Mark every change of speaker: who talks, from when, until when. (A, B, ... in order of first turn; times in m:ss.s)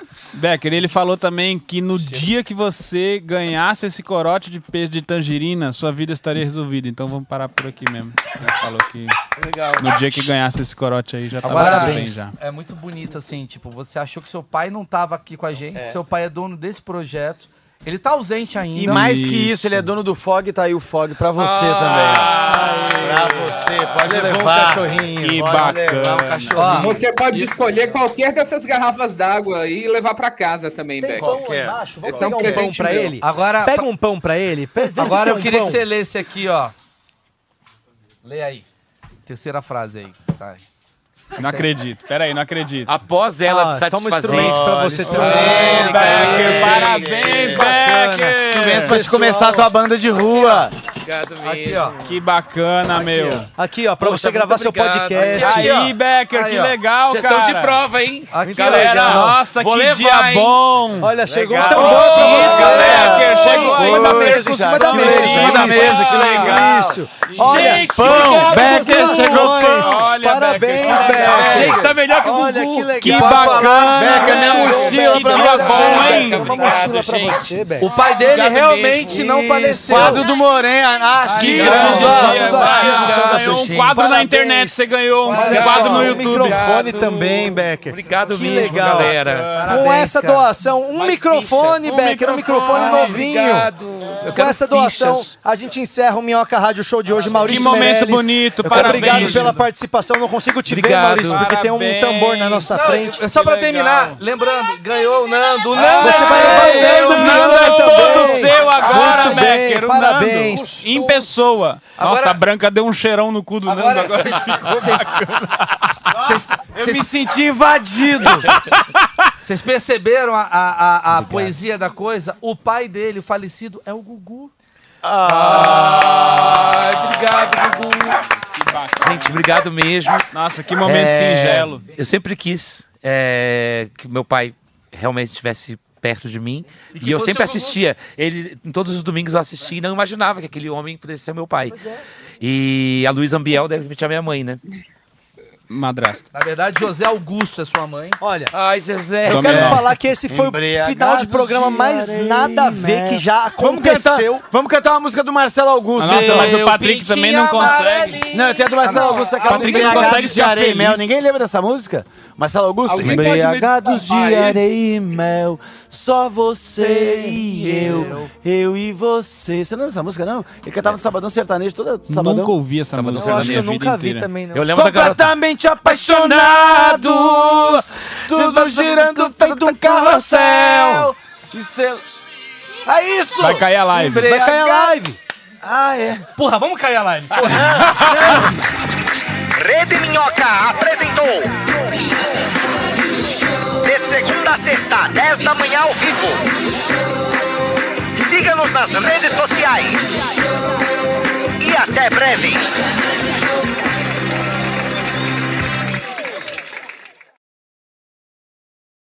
0:00.3-0:09.2 A
0:02.0-0:02.3 B
0:09.3-0:10.4 C
0:09.8-0:12.3 A
0:11.4-0:19.1 D
0:11.5-0:12.0 B
0:11.7-0:12.0 C
0:18.7-0:27.1 B
0:18.8-0:19.9 A
0:21.4-0:24.0 A
0:21.4-0:22.5 C
0:24.0-0:25.8 E
0:25.2-0:26.9 A
0:26.5-0:27.6 D
0:26.8-0:31.4 F
0:31.0-0:35.8 E
0:31.1-0:32.7 B
0:32.0-0:33.1 F
0:32.8-0:33.8 D
0:34.8-0:36.7 D
0:38.2-0:38.6 D
0:39.2-0:40.6 D
0:41.4-0:42.9 A
0:42.8-0:47.3 C
0:43.4-0:49.7 E
0:44.2-0:47.8 B
0:45.0-0:49.0 A
0:45.4-0:46.3 D
0:48.4-0:50.8 B
0:50.3-0:52.2 C
0:51.4-0:52.0 D
0:52.0-0:53.5 A
0:53.0-0:53.4 D
0:53.0-0:53.4 C
0:53.6-0:55.7 E
0:54.0-0:55.4 C
0:55.1-0:56.7 D
0:55.4-0:57.8 A
0:57.1-1:00.6 C
0:58.3-0:59.1 D
0:58.4-0:59.4 E
0:58.6-1:01.1 A
1:01.0-1:17.9 E
1:01.2-1:10.0 B
1:01.7-1:06.7 A
1:01.8-1:02.4 C
1:02.2-1:03.8 D
1:07.2-1:16.6 A
1:07.5-1:09.4 C
1:10.8-1:12.0 B
1:11.4-1:12.9 C
1:13.0-1:16.8 D
1:14.0-1:16.6 B
1:15.6-1:17.5 C
1:17.8-1:20.2 D
1:18.2-1:19.1 C
1:19.0-1:22.6 B
1:19.7-1:20.2 E
1:21.2-1:23.0 D
1:21.4-1:33.7 E
1:21.4-1:27.1 A
1:21.6-1:24.0 C
1:25.2-1:25.9 D
1:25.4-1:29.5 C
1:28.5-1:30.5 D
1:29.2-1:29.8 A
1:30.9-1:35.3 C
1:31.9-1:33.3 A
1:34.3-1:43.2 E
1:37.2-1:38.0 D
1:37.4-1:39.6 A
1:38.7-1:39.5 C
1:39.1-1:39.6 D
1:40.7-1:41.5 C
1:41.1-1:44.2 A
1:42.7-1:49.4 D
1:45.8-1:46.3 C
1:45.8-1:56.0 A
1:46.0-1:51.0 E
1:52.0-1:52.4 D
1:53.6-1:55.2 D
1:56.1-1:58.6 B
1:56.2-1:57.1 D
1:58.5-1:58.8 A
1:59.4-2:04.5 D
2:01.2-2:01.5 C
2:05.0-2:06.7 B
2:05.2-2:08.1 D
2:06.3-2:08.1 C
2:08.4-2:09.4 A
2:09.0-2:10.2 C
2:10.3-2:11.8 A
2:10.8-2:21.8 C
2:16.9-2:17.8 D
2:21.7-2:22.0 D
2:22.4-2:24.6 C
2:25.7-2:26.3 A
2:26.3-2:28.2 D
2:28.2-2:28.5 E
2:28.5-2:29.8 C
2:29.2-2:34.4 E
2:29.3-2:29.8 A
2:29.5-2:36.6 B
2:36.0-2:38.2 A
2:36.0-2:40.4 D
2:38.3-2:52.5 B
2:39.4-2:41.1 A
2:42.8-2:44.6 F
2:46.8-2:48.3 D
2:52.1-2:54.3 A
2:52.9-2:53.7 C
2:53.1-2:54.7 E
2:54.5-3:01.1 C
2:54.7-3:02.1 B
3:00.4-3:01.1 D
3:02.8-3:05.0 B
3:03.4-3:04.3 A
3:04.2-3:05.2 E
3:05.6-3:06.2 B
3:06.3-3:07.8 D
3:07.4-3:08.7 B
3:07.8-3:08.4 A
3:09.6-3:11.6 G
3:13.8-3:16.5 G
3:18.2-3:20.3 G
3:21.6-3:22.7 G